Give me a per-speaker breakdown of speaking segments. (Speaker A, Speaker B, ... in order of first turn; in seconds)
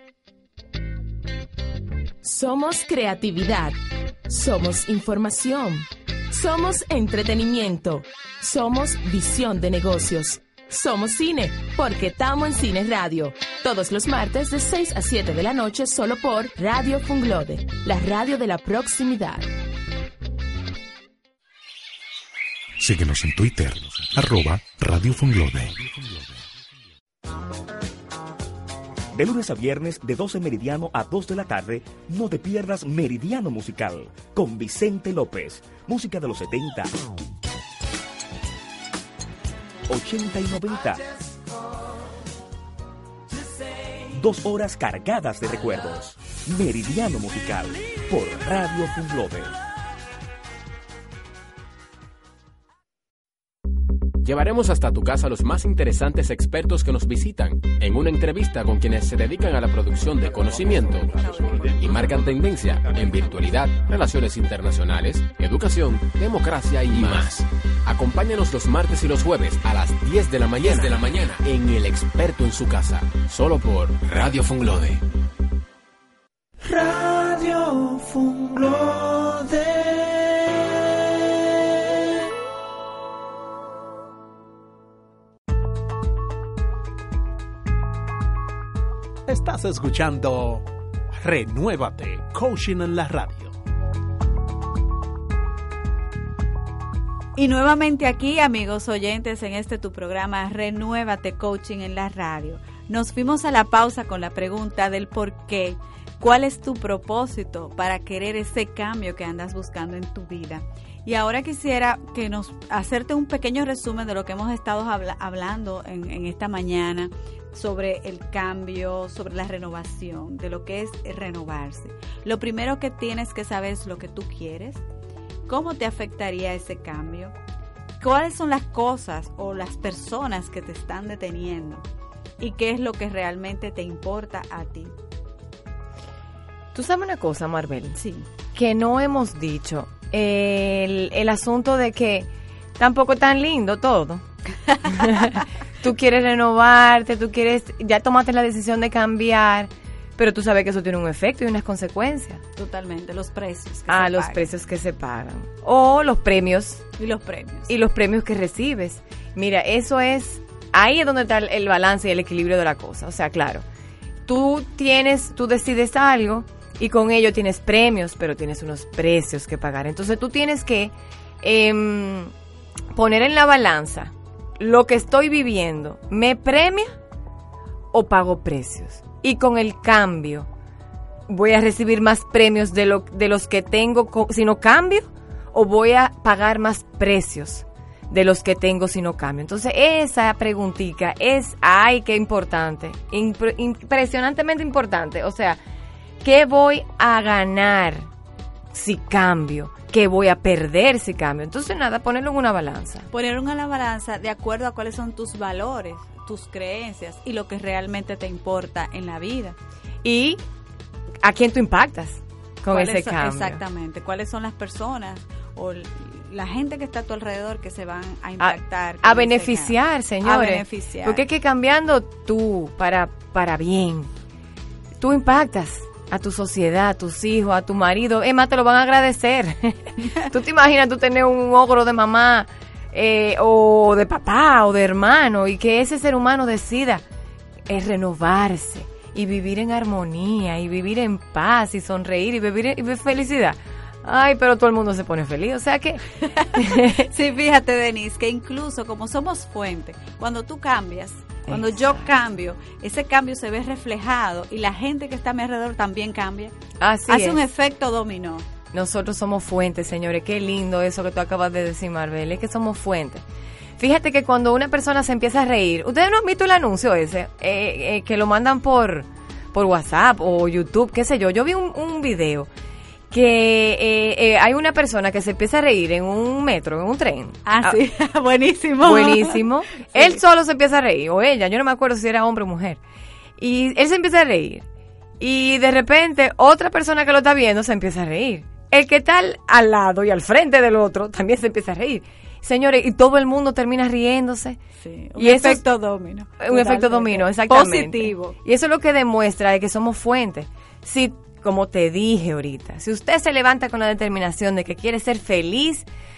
Speaker A: 2.2-19.5
Speaker B: 22.8-26.4
Speaker C: 29.1-36.9, 39.9-41.0, 44.1-49.6
Speaker D: 54.2-75.0
Speaker E: 76.6-81.1
Speaker F: 89.3-93.5
Speaker G: 97.3-124.8, 125.5-127.3, 128.0-131.8, 132.4-134.9, 137.9-138.2, 144.7-145.1, 152.6-154.4, 157.0-157.7, 203.1-209.6, 212.7-221.2, 247.0-256.5, 257.1-258.4, 277.4-280.2, 294.8-298.4
Speaker H: 136.7-138.0, 138.5-144.2, 144.9-152.4, 153.9-156.8, 157.7-163.6, 164.2-172.3, 172.9-176.9, 177.9-180.5, 181.3-195.6, 196.2-198.1, 198.7-203.1, 210.0-210.4, 211.2-213.6, 218.4-224.1, 225.0-237.0, 237.7-247.1, 251.5-252.0, 256.8-257.4, 258.7-263.2, 263.8-272.5, 273.1-277.8, 278.8-282.8, 283.4-284.6, 285.2-294.6, 295.2-295.6, 296.4-305.9